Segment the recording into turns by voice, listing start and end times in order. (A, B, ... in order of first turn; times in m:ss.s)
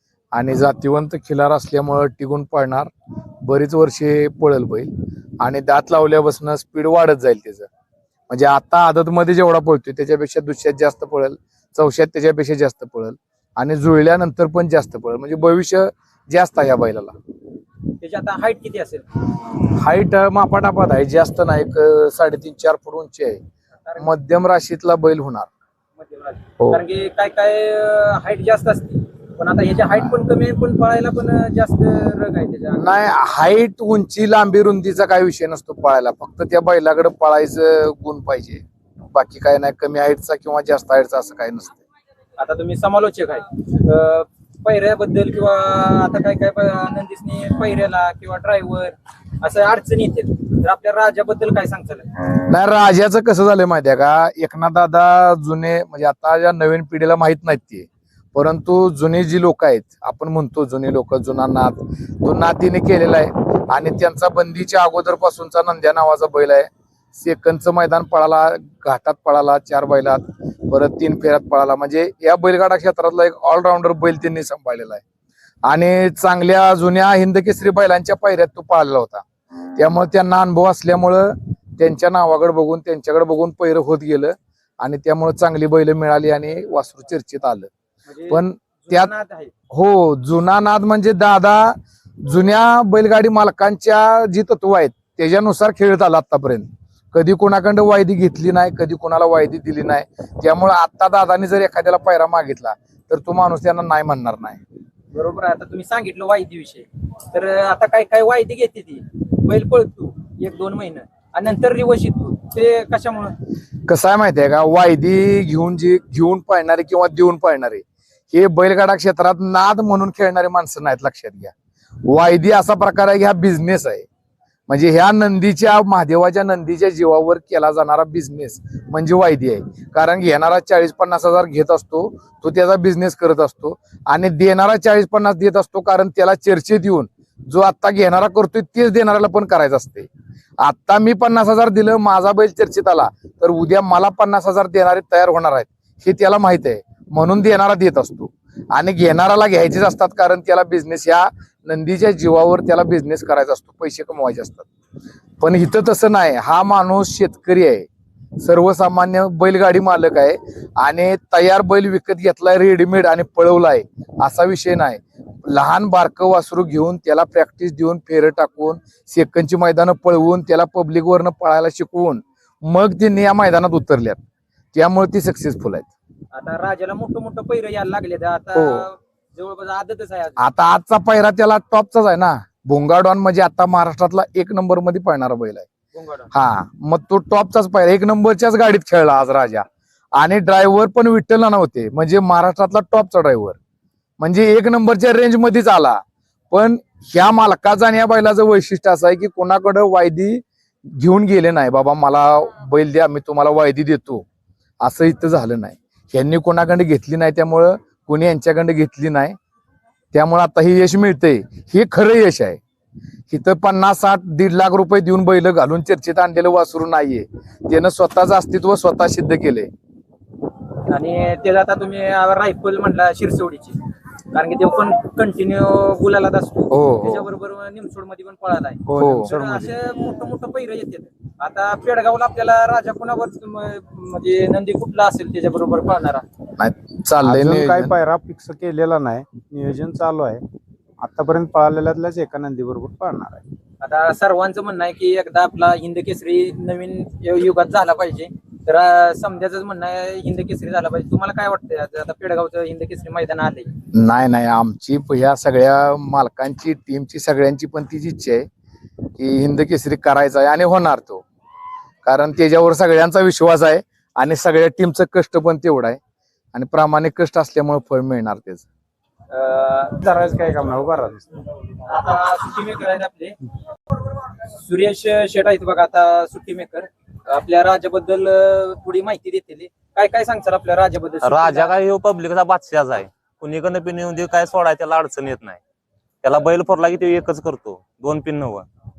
0:00.3-0:02.9 A
0:03.4-0:07.7 A
0:08.3-0:17.1 A
0:18.0-0:19.0 B
0:19.6-0:23.4 A
0:23.8-0:24.1 B
0:24.0-0:25.5 A
0:26.0-0:33.1 B
0:32.7-0:41.8 A
0:42.4-0:52.1 B
0:52.5-1:15.0 A
1:15.6-1:19.2 A
1:19.8-1:27.7 A
1:28.0-1:29.5 B
1:28.3-1:29.1 A
1:29.7-1:44.6 A
1:45.1-1:53.3 B
1:53.8-2:01.5 A
2:02.1-2:04.0 A
2:04.7-2:20.1 A
2:20.6-2:34.6 A
2:35.4-2:37.9 A
2:38.4-2:54.2 A
2:54.7-2:55.9 A
2:56.3-3:00.4 B
2:58.5-2:58.9 A
3:00.4-3:05.7 A
3:05.9-3:06.3 B
3:06.3-3:09.6 A
3:10.2-3:13.6 A
3:14.2-3:16.0 A
3:16.5-3:24.2 A
3:24.8-3:29.4 A
3:30.1-3:32.6 A
3:33.3-3:39.7 A
3:40.9-3:43.8 B
3:44.3-3:56.2 B
3:46.7-3:47.3 A
3:48.9-3:49.7 C
3:48.9-3:49.3 A
3:56.6-3:57.9 A
3:57.2-4:00.4 C
4:01.0-4:03.4 C
4:03.8-4:13.7 B
4:13.9-4:18.4 A
4:19.2-4:21.2 A
4:22.0-4:26.0 A
4:26.5-4:28.6 A
4:29.3-4:30.0 B
4:30.0-4:31.3 C
4:31.8-4:33.4 B
4:34.4-4:41.7 B
4:41.2-4:45.6 D
4:46.2-4:48.7 D